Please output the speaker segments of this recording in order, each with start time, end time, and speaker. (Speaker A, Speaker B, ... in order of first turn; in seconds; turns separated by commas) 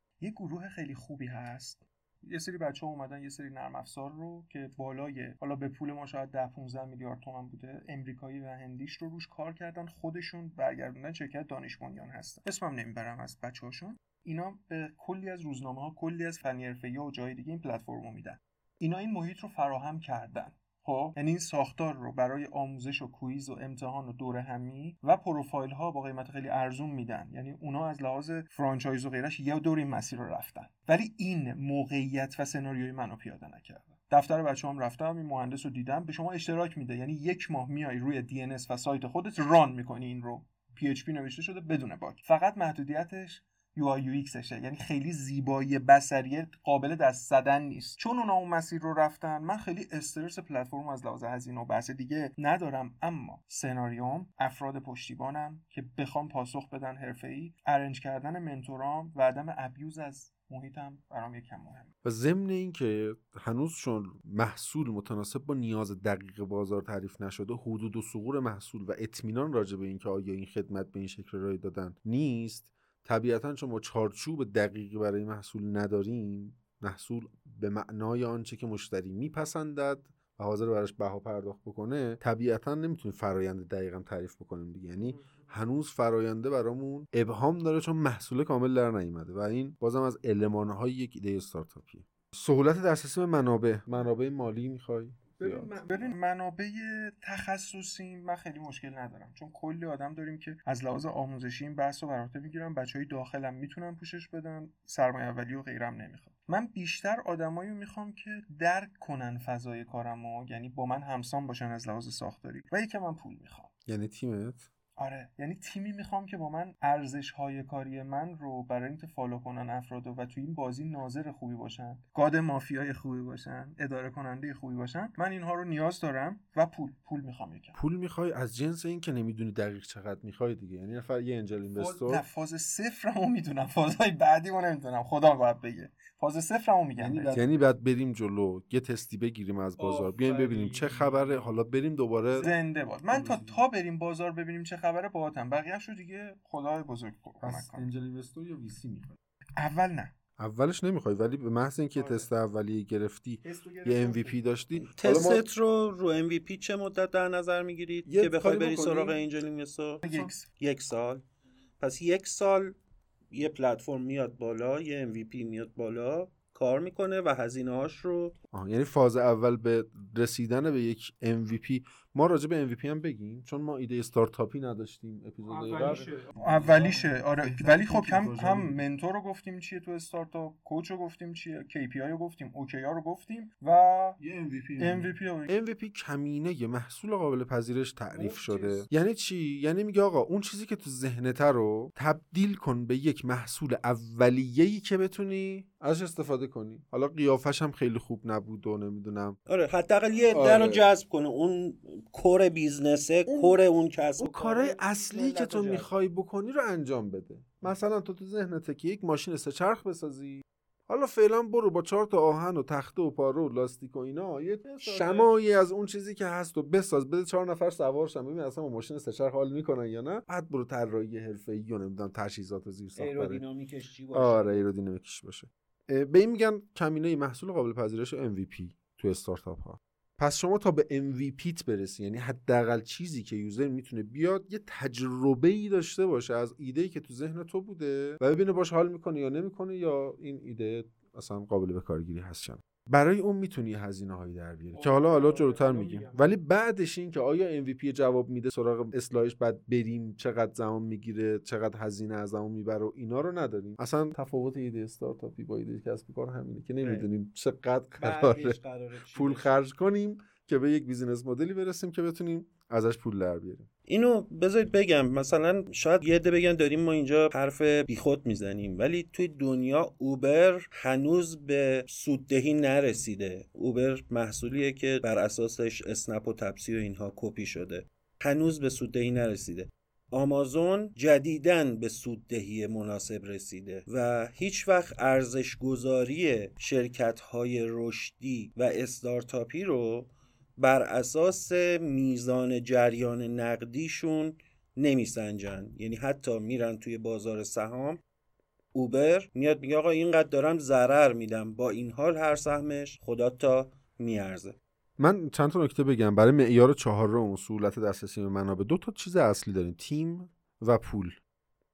Speaker A: 0.2-61.9, Speaker B: 62.0-95.8, Speaker A: 85.0-85.5, Speaker A: 95.4-113.7, Speaker B: 113.8-114.7, Speaker A: 115.0-127.8, Speaker B: 127.7-132.2, Speaker A: 131.8-137.7, Speaker B: 137.0-142.5, Speaker A: 139.8-141.5, Speaker A: 142.3-147.9, Speaker B: 143.1-143.6, Speaker B: 147.4-149.2, Speaker A: 149.6-150.1, Speaker B: 150.4-155.4, Speaker A: 151.9-152.3, Speaker A: 153.4-154.9, Speaker C: 155.0-161.2, Speaker B: 158.1-159.2, Speaker A: 160.0-160.4, Speaker B: 160.1-160.3, Speaker C: 161.8-162.7, Speaker C: 163.3-168.3, Speaker B: 168.5-178.8, Speaker A: 175.4-184.2, Speaker B: 184.2-199.4, Speaker A: 184.8-185.5, Speaker A: 188.1-188.8, Speaker C: 199.5-205.9, Speaker B: 200.3-200.9, Speaker B: 204.2-223.4, Speaker C: 214.6-215.3, Speaker C: 222.9-224.6, Speaker B: 224.1-258.6, Speaker A: 244.7-246.3, Speaker C: 256.8-257.1, Speaker C: 258.0-259.6, Speaker B: 259.1-263.7, Speaker C: 263.9-298.0, Speaker C: 298.7-304.6, Speaker B: 305.0-311.2